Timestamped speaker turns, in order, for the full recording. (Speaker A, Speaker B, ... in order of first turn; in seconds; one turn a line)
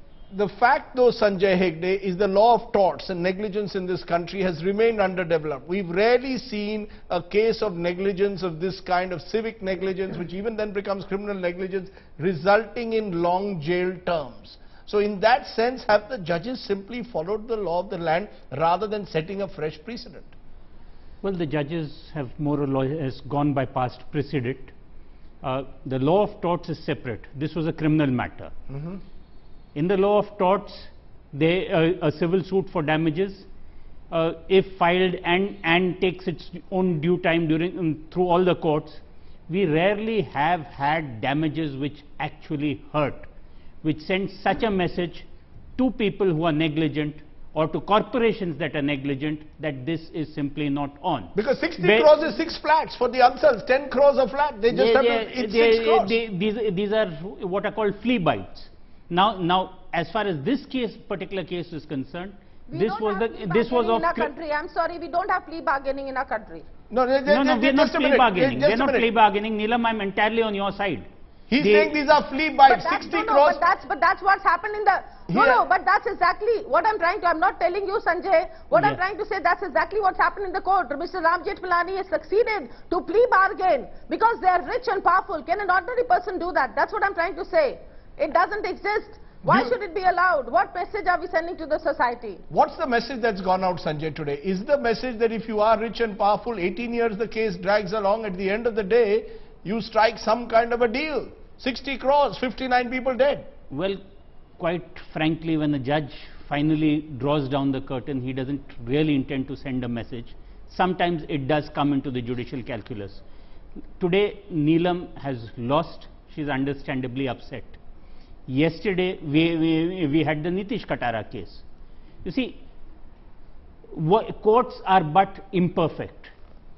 Speaker A: 0.3-20.3
Speaker B: 21.2-24.7
Speaker B: 25.4-28.5
Speaker A: 28.7-29.0
Speaker B: 29.7-33.5
Speaker B: 34.1-43.3
Speaker B: 43.8-45.2
Speaker B: 45.8-52.1
Speaker A: 51.3-56.2
Speaker B: 54.7-64.3
Speaker C: 62.7-66.7
Speaker A: 66.9-69.1
Speaker B: 67.3-71.1
Speaker A: 71.5-73.6
Speaker B: 71.6-72.0
Speaker C: 72.7-92.4
Speaker A: 75.3-75.6
Speaker B: 78.7-79.0
Speaker A: 89.4-89.7
Speaker A: 92.5-103.5
Speaker B: 103.7-104.0
Speaker B: 104.6-113.2
Speaker B: 114.0-117.8
Speaker B: 118.5-121.6
Speaker B: 122.2-122.6
Speaker B: 123.9-126.3